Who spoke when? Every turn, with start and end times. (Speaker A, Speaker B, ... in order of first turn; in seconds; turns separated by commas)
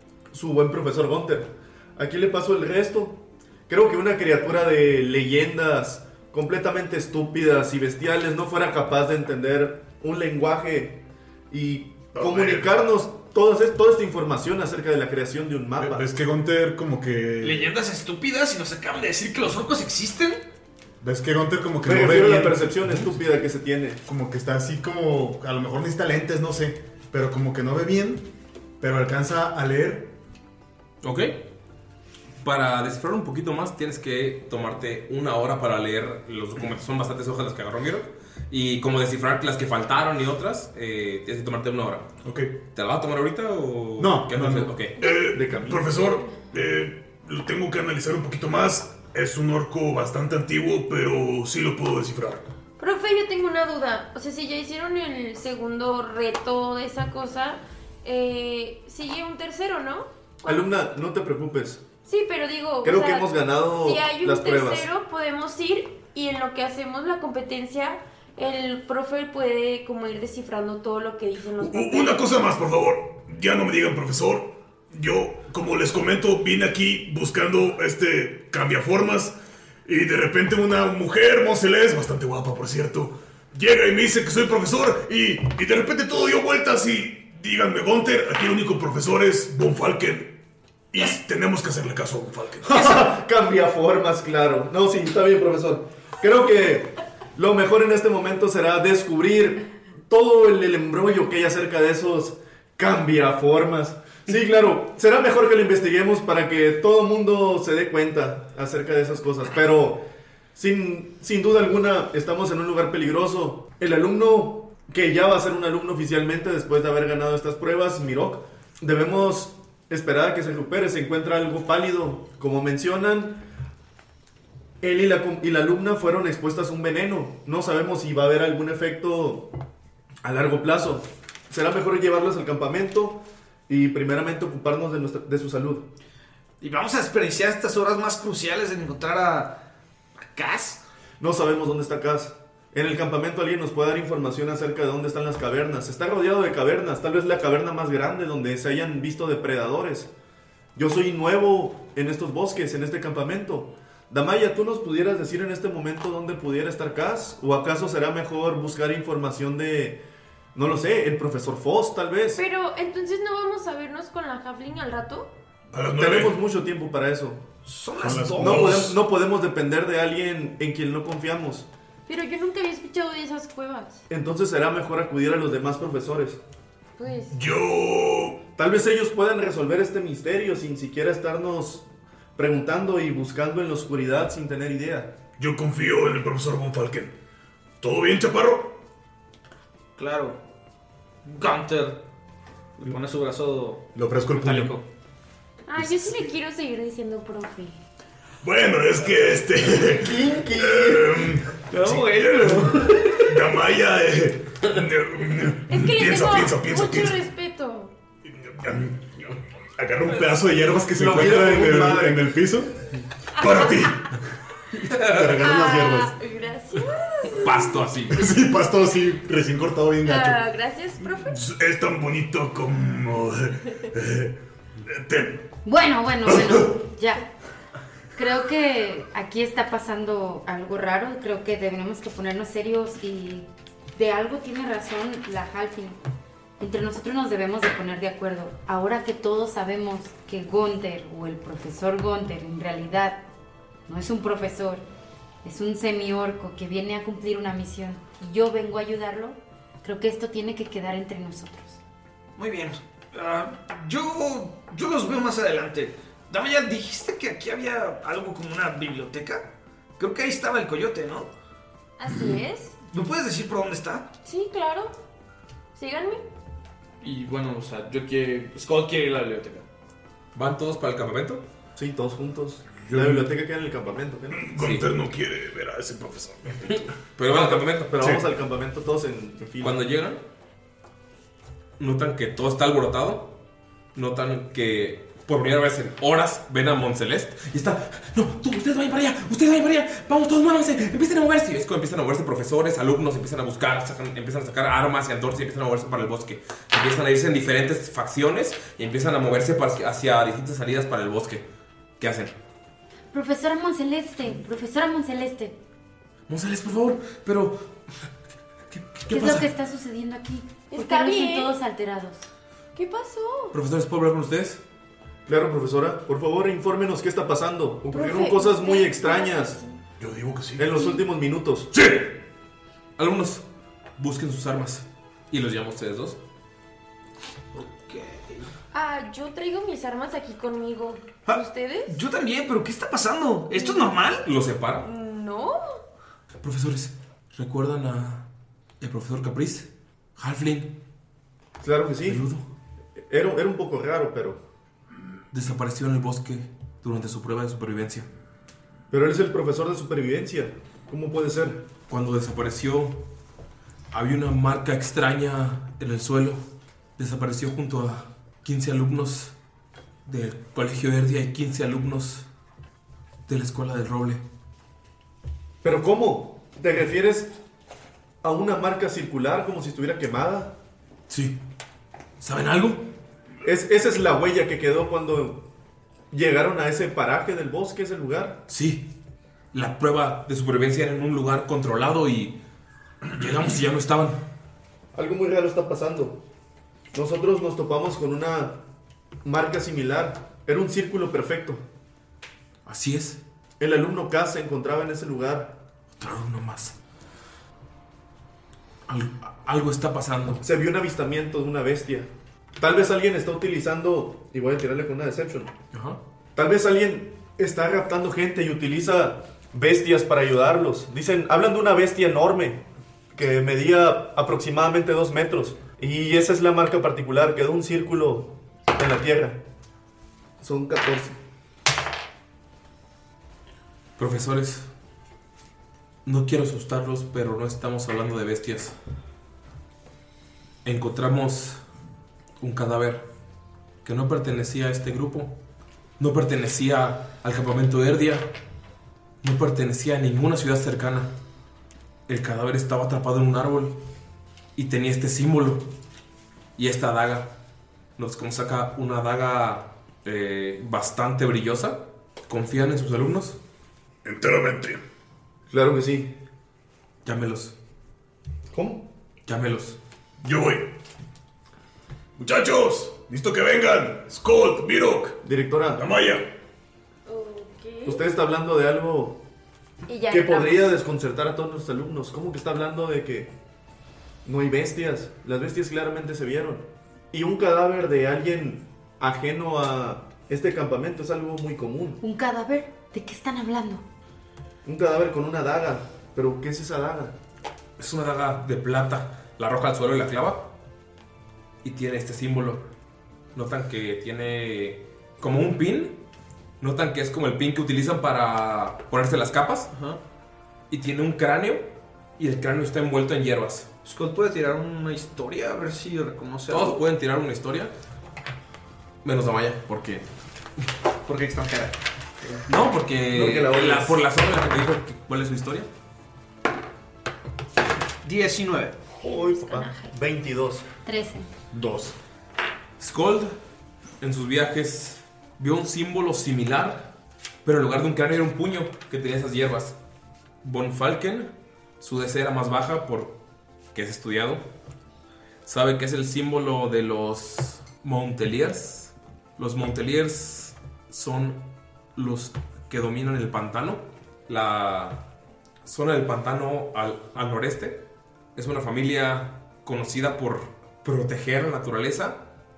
Speaker A: 0.3-16.1, Speaker B: 12.2-12.7, Speaker C: 15.8-17.7, Speaker D: 17.4-20.4, Speaker C: 21.0-22.7, Speaker A: 21.9-24.0, Speaker C: 24.1-28.2, Speaker C: 28.8-30.1, Speaker E: 31.0-31.4, Speaker E: 32.4-42.1, Speaker E: 42.7-45.0, Speaker C: 44.0-44.7, Speaker B: 45.0-52.4, Speaker F: 45.0-45.3, Speaker A: 45.3-46.0, Speaker F: 52.8-60.7, Speaker A: 60.4-61.8, Speaker F: 62.0-72.5, Speaker A: 62.8-64.9, Speaker B: 71.6-79.3, Speaker B: 79.9-90.4, Speaker B: 90.9-93.0, Speaker A: 92.7-110.0, Speaker A: 110.5-123.5, Speaker A: 124.8-129.5, Speaker A: 130.2-135.9, Speaker D: 136.6-139.6, Speaker D: 140.3-140.8, Speaker A: 141.2-150.1, Speaker A: 150.8-160.0, Speaker A: 160.6-162.4, Speaker F: 162.4-165.3, Speaker B: 165.7-166.4, Speaker A: 166.0-167.4, Speaker D: 167.7-168.7, Speaker B: 168.0-169.0, Speaker C: 168.1-168.4, Speaker A: 168.4-171.7, Speaker F: 172.1-174.0, Speaker A: 174.1-176.4, Speaker F: 177.0-177.4, Speaker B: 177.3-178.4, Speaker A: 178.6-185.1, Speaker B: 185.4-187.1, Speaker B: 187.8-188.8, Speaker D: 190.0-190.4, Speaker D: 191.3-192.0, Speaker D: 192.8-194.8, Speaker C: 193.9-194.7, Speaker F: 195.7-197.8, Speaker B: 198.4-207.2, Speaker A: 200.1-201.0, Speaker D: 201.7-203.3, Speaker F: 205.7-207.9, Speaker B: 208.3-210.6, Speaker C: 210.3-212.7, Speaker A: 211.0-212.3, Speaker F: 213.4-213.9, Speaker B: 213.4-214.1, Speaker C: 214.9-216.1, Speaker E: 214.9-215.4, Speaker F: 215.4-217.8, Speaker E: 217.4-218.3, Speaker C: 218.1-220.4, Speaker F: 220.0-221.4, Speaker B: 221.3-225.4, Speaker G: 225.7-227.3, Speaker B: 226.3-226.7, Speaker G: 228.2-236.0, Speaker G: 236.6-243.2, Speaker G: 243.9-244.8, Speaker G: 245.4-251.8, Speaker D: 252.4-261.3, Speaker F: 262.0-262.7, Speaker D: 262.9-264.1, Speaker F: 264.2-264.9, Speaker F: 265.7-266.2, Speaker D: 267.0-269.6, Speaker E: 270.4-271.4, Speaker A: 271.8-274.6, Speaker B: 272.8-273.3, Speaker B: 274.3-276.9, Speaker E: 274.6-274.9, Speaker E: 276.7-277.9, Speaker A: 277.3-279.8, Speaker E: 279.6-280.2, Speaker E: 281.8-283.3, Speaker E: 283.9-301.4, Speaker E: 302.0-302.4, Speaker G: 303.1-305.6, Speaker E: 306.3-307.7, Speaker E: 308.7-309.5, Speaker G: 309.1-312.3, Speaker F: 310.7-311.5, Speaker F: 312.7-313.6, Speaker E: 313.5-314.6, Speaker A: 315.3-319.6, Speaker F: 317.9-319.8, Speaker B: 320.0-320.8, Speaker A: 320.6-321.7, Speaker B: 321.7-322.1, Speaker E: 323.0-323.4, Speaker E: 324.0-326.2, Speaker D: 327.5-328.5, Speaker F: 328.7-332.0, Speaker D: 331.3-334.2, Speaker F: 333.5-334.0, Speaker E: 334.2-334.9, Speaker F: 334.8-335.8, Speaker E: 336.4-338.3, Speaker E: 338.8-340.7, Speaker A: 341.6-342.2, Speaker E: 342.1-342.4, Speaker A: 343.1-344.4, Speaker E: 345.3-348.1, Speaker A: 348.9-351.6, Speaker E: 351.9-353.0, Speaker E: 353.9-356.4, Speaker E: 357.0-359.3, Speaker E: 360.1-362.3, Speaker E: 363.3-364.2, Speaker A: 365.6-367.3, Speaker A: 368.2-370.6, Speaker E: 371.1-371.4, Speaker E: 372.2-372.9, Speaker A: 373.4-375.4, Speaker A: 376.1-378.4, Speaker E: 378.5-378.9, Speaker E: 379.5-382.4, Speaker E: 383.1-384.2, Speaker A: 384.9-386.2, Speaker A: 386.9-388.6, Speaker A: 389.2-391.6, Speaker E: 392.6-393.2, Speaker A: 393.6-395.6, Speaker E: 396.0-396.8, Speaker E: 398.9-400.4, Speaker A: 400.4-402.1, Speaker A: 402.6-405.5, Speaker E: 405.7-406.0, Speaker A: 406.4-412.6, Speaker A: 413.1-419.4, Speaker A: 420.4-421.1, Speaker E: 424.0-424.7, Speaker E: 426.1-428.8, Speaker E: 430.6-431.6, Speaker E: 432.4-433.1, Speaker E: 433.8-435.4, Speaker E: 436.0-438.3, Speaker E: 439.2-441.1, Speaker E: 442.1-443.8, Speaker E: 444.6-445.6, Speaker E: 446.6-447.3, Speaker E: 448.0-453.4, Speaker B: 454.0-454.8, Speaker A: 455.5-456.1, Speaker E: 457.1-457.6, Speaker A: 458.5-458.9, Speaker E: 459.3-459.8, Speaker B: 460.2-460.7, Speaker B: 462.2-465.2, Speaker A: 465.2-465.9, Speaker B: 465.7-466.3, Speaker F: 467.1-468.0, Speaker A: 467.9-469.2, Speaker F: 469.9-470.8, Speaker A: 470.1-473.3, Speaker A: 474.2-482.0, Speaker G: 482.0-483.8, Speaker A: 484.6-487.1, Speaker E: 487.8-490.4, Speaker E: 491.6-492.6, Speaker E: 493.4-496.0, Speaker E: 496.6-499.7, Speaker D: 499.7-500.0, Speaker E: 500.7-501.6, Speaker E: 502.2-503.7, Speaker D: 503.9-506.8, Speaker E: 506.5-507.7, Speaker E: 509.0-510.1, Speaker D: 511.1-512.3, Speaker E: 512.5-515.7, Speaker A: 513.1-514.0, Speaker D: 518.0-518.8, Speaker A: 519.0-520.6, Speaker F: 519.1-519.9, Speaker G: 520.9-521.3, Speaker C: 521.5-521.9, Speaker E: 522.8-523.4, Speaker E: 524.0-526.9, Speaker E: 527.4-529.8, Speaker E: 530.4-533.2, Speaker E: 533.7-534.4, Speaker E: 535.4-541.4, Speaker E: 541.9-545.1, Speaker E: 545.6-547.8, Speaker E: 548.4-552.2